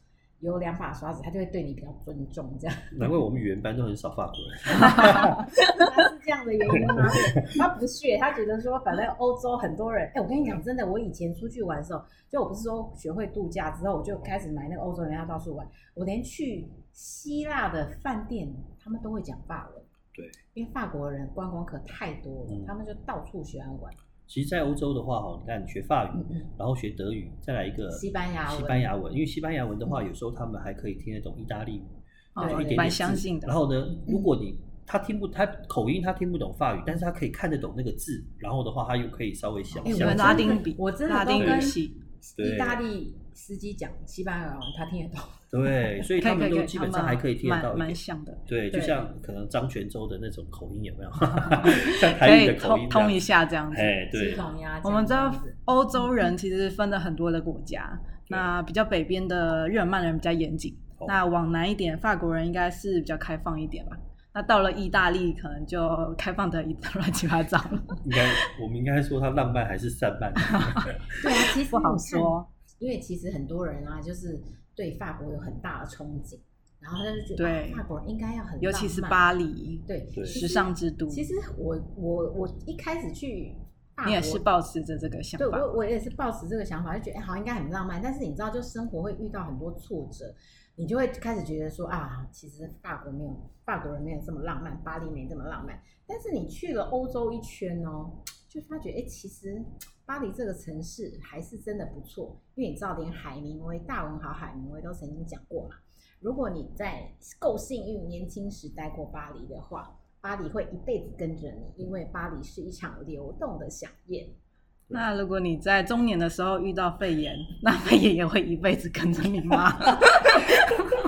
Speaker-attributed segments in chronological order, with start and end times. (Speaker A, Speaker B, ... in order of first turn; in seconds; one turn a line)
Speaker A: 0.4-3.0
Speaker B: 2.9-5.5
Speaker A: 5.0-19.9
Speaker B: 6.7-7.6
Speaker A: 20.5-23.9
Speaker B: 22.5-22.7
Speaker B: 24.3-40.6
Speaker A: 26.2-26.4
Speaker A: 27.9-28.9
Speaker C: 32.3-33.5
Speaker A: 32.4-32.9
Speaker A: 33.9-34.3
Speaker A: 39.8-45.4
Speaker C: 39.9-42.0
Speaker B: 41.4-41.7
Speaker B: 42.4-42.8
Speaker B: 45.5-54.4
Speaker C: 46.2-48.5
Speaker C: 51.4-54.0
Speaker A: 54.1-55.5
Speaker C: 54.8-68.0
Speaker B: 68.0-71.2
Speaker C: 70.5-70.9
Speaker A: 71.2-79.2
Speaker C: 71.5-72.5
Speaker C: 77.4-77.8
Speaker C: 78.6-81.3
Speaker A: 79.8-84.4
Speaker B: 80.1-80.4
Speaker C: 84.0-85.7
Speaker A: 85.4-114.3
Speaker C: 114.9-120.6